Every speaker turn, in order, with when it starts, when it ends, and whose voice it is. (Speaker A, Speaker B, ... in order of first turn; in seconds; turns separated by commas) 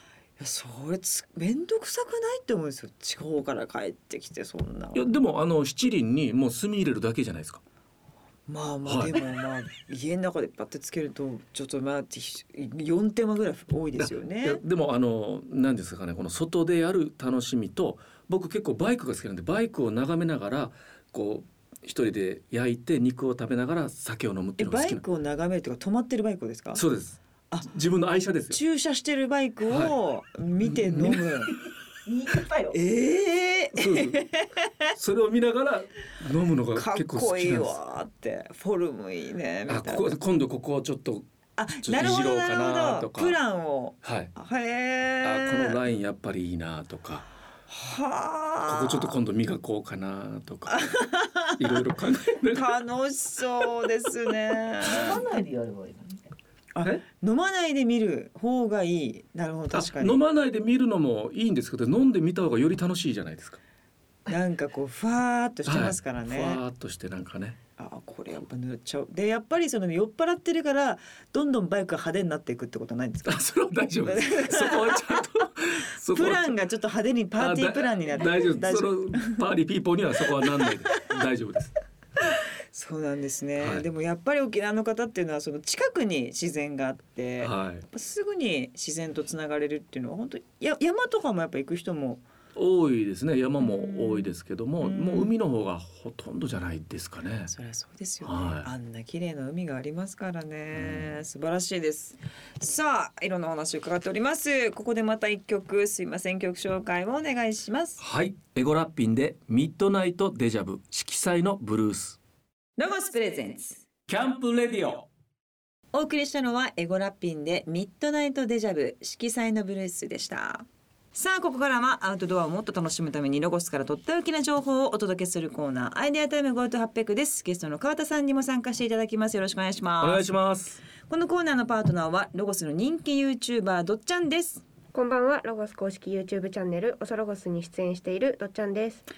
Speaker A: 0.4-5.1, Speaker B: 4.9-7.6, Speaker A: 8.5-14.6, Speaker B: 8.8-9.2, Speaker B: 14.0-25.0, Speaker A: 24.6-26.8, Speaker B: 26.8-28.6, Speaker A: 28.5-31.6, Speaker B: 29.7-29.9, Speaker B: 30.6-31.2, Speaker C: 31.1-32.8, Speaker A: 32.7-34.9, Speaker B: 33.8-34.2, Speaker B: 34.9-37.8, Speaker A: 36.7-40.1, Speaker B: 39.7-41.3, Speaker A: 41.6-45.8, Speaker B: 41.8-43.4, Speaker B: 44.0-44.3, Speaker B: 45.2-47.3, Speaker A: 47.7-49.2, Speaker B: 48.7-50.9, Speaker A: 50.7-51.6, Speaker B: 51.6-52.7, Speaker A: 52.5-55.2, Speaker C: 54.8-56.4, Speaker A: 56.8-60.2, Speaker B: 59.7-63.6, Speaker A: 64.3-66.6, Speaker B: 65.7-67.6, Speaker A: 67.8-73.4, Speaker B: 73.2-76.6, Speaker A: 74.0-75.2, Speaker A: 76.1-79.4, Speaker B: 77.4-81.8, Speaker A: 80.4-81.2, Speaker A: 82.7-92.2, Speaker B: 83.6-83.9, Speaker B: 87.4-87.9, Speaker B: 92.5-97.5, Speaker A: 93.6-95.3, Speaker A: 97.5-108.0, Speaker B: 98.2-98.7, Speaker B: 100.8-101.1, Speaker B: 108.0-112.2, Speaker A: 112.8-113.9, Speaker B: 114.1-115.1, Speaker A: 115.9-130.3, Speaker B: 130.0-130.8, Speaker A: 131.0-134.6, Speaker D: 134.9-139.0